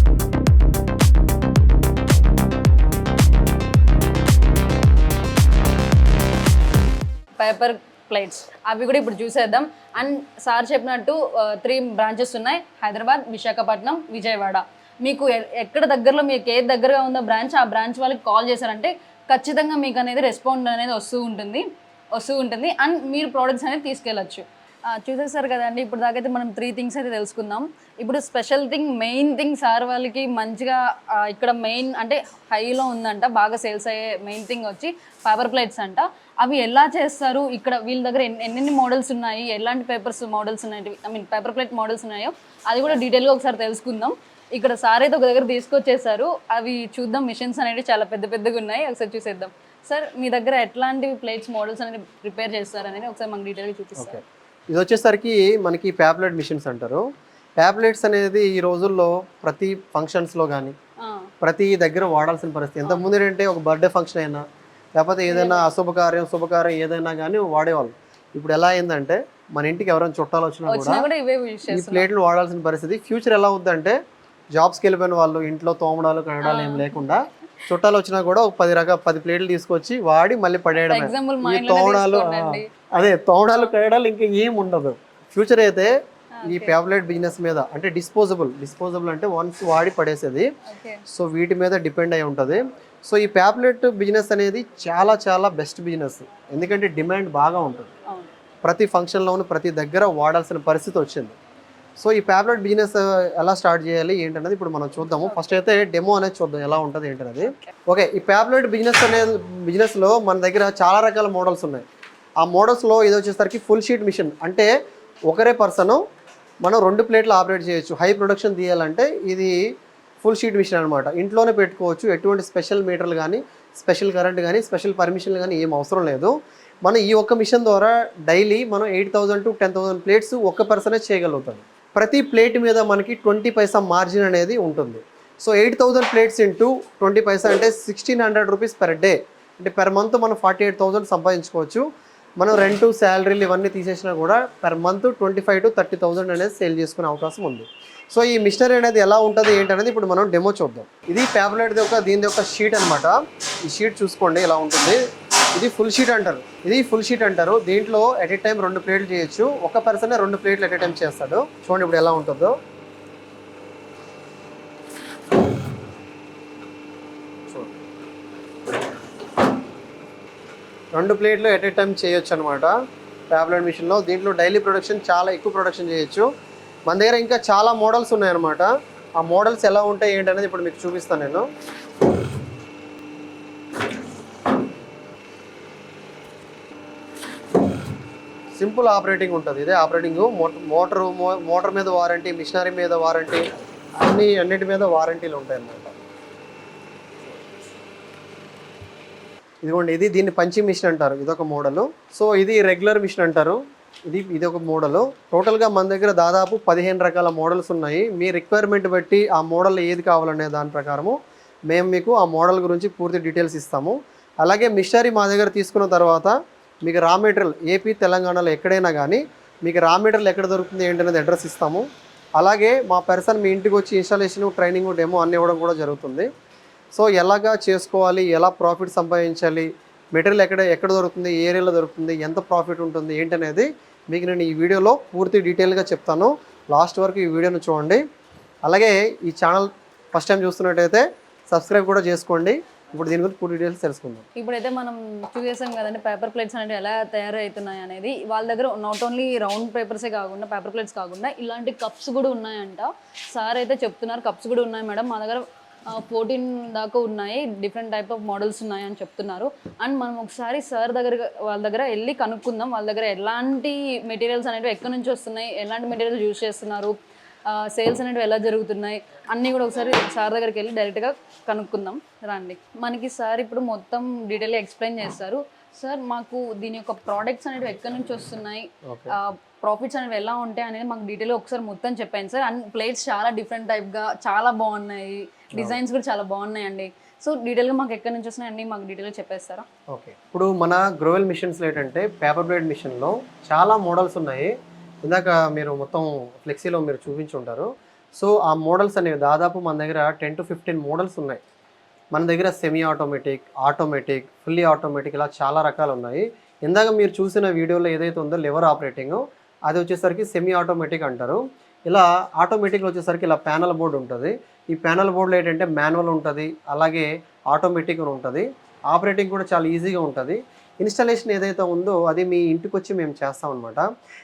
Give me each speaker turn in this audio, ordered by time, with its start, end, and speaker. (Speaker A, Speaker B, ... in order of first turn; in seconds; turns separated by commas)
Speaker A: 7.4-54.2, Speaker B: 54.0-57.1, Speaker B: 57.6-60.8, Speaker A: 61.0-61.3, Speaker B: 61.4-64.4, Speaker B: 65.0-71.1, Speaker A: 65.3-65.7, Speaker A: 70.7-72.1, Speaker B: 71.7-74.0, Speaker B: 74.5-85.9, Speaker A: 76.4-77.2, Speaker A: 80.8-82.7, Speaker A: 86.4-86.8, Speaker B: 86.5-90.5, Speaker A: 90.7-91.0, Speaker B: 91.1-97.9, Speaker B: 98.6-101.4, Speaker B: 102.0-111.8, Speaker A: 107.5-107.7, Speaker B: 112.4-114.7, Speaker B: 115.3-116.0, Speaker B: 116.6-119.5, Speaker B: 120.2-141.9, Speaker B: 142.4-155.0, Speaker B: 155.6-162.6, Speaker B: 167.5-167.8, Speaker B: 171.0-172.8, Speaker B: 173.3-176.3, Speaker B: 176.9-181.5, Speaker B: 188.6-193.5, Speaker B: 194.0-195.9, Speaker B: 199.6-211.2, Speaker B: 211.7-221.9, Speaker B: 222.4-226.3, Speaker B: 227.0-238.0, Speaker B: 238.7-244.3, Speaker A: 244.4-267.0, Speaker A: 267.5-289.7, Speaker B: 278.9-279.2, Speaker B: 289.9-294.5, Speaker B: 295.1-301.4, Speaker B: 302.1-323.9